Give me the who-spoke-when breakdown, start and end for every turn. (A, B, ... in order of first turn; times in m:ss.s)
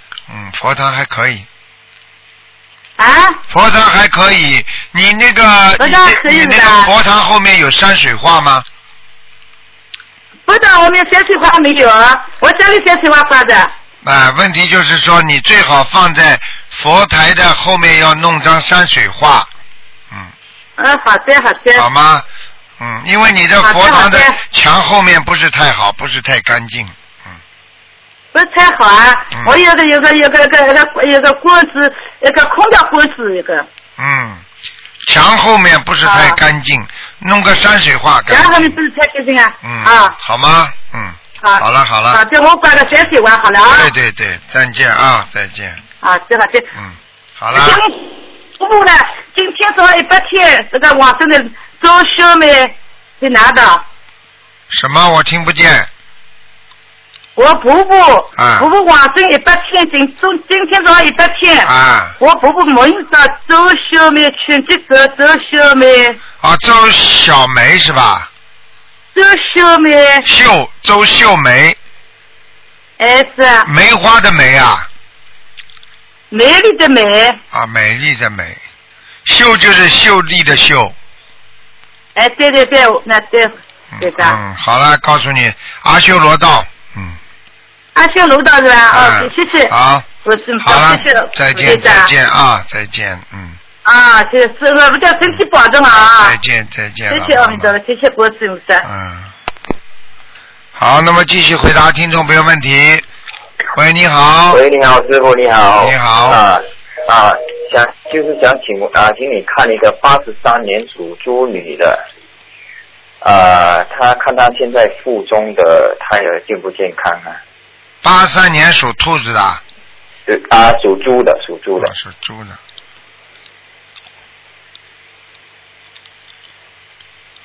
0:00.3-0:01.4 A
0:03.0-0:03.4 B
0:03.5-0:08.6 A
0:05.8-0:06.9 B
0:10.5-0:13.7 B
0:14.0-0:19.5 A
0:20.8-0:21.9 B
0:21.7-0:22.2 A
0:22.8-0:27.3 A
0:23.6-0:24.4 B
0:28.3-0:33.7 B
0:29.3-0:29.6 A
0:34.0-0:34.4 A
0:35.0-0:38.8 A
0:36.0-0:36.4 B
0:38.3-0:40.1 B
0:39.6-0:42.2 A
0:41.4-0:43.9 B
0:43.6-0:45.8 A
0:46.0-0:46.7 B
0:46.7-0:47.8 A
0:47.5-0:53.8 B
0:54.7-0:55.9 A
0:57.4-1:06.2 B
0:58.4-0:58.7 A
1:01.6-1:02.1 A
1:06.4-1:08.3 A
1:09.1-1:10.2 B
1:10.2-1:11.8 A
1:13.0-1:13.7 B
1:13.6-1:14.9 A
1:16.3-1:17.4 B
1:17.5-1:18.6 A
1:19.2-1:20.9 A
1:22.1-1:24.4 B
1:23.9-1:27.2 A
1:27.9-1:29.7 B
1:28.9-1:30.1 A
1:30.2-1:32.1 B
1:30.6-1:33.6 A
1:33.8-1:36.4 B
1:36.2-1:37.7 A
1:37.1-1:38.9 B
1:38.8-1:39.3 A
1:40.7-1:43.1 A
1:43.7-1:44.6 A
1:44.5-1:52.0 C
1:45.8-1:46.4 A
1:53.2-1:57.4 C
1:58.0-1:59.6 A
2:00.3-2:01.9 C
2:01.8-2:02.6 A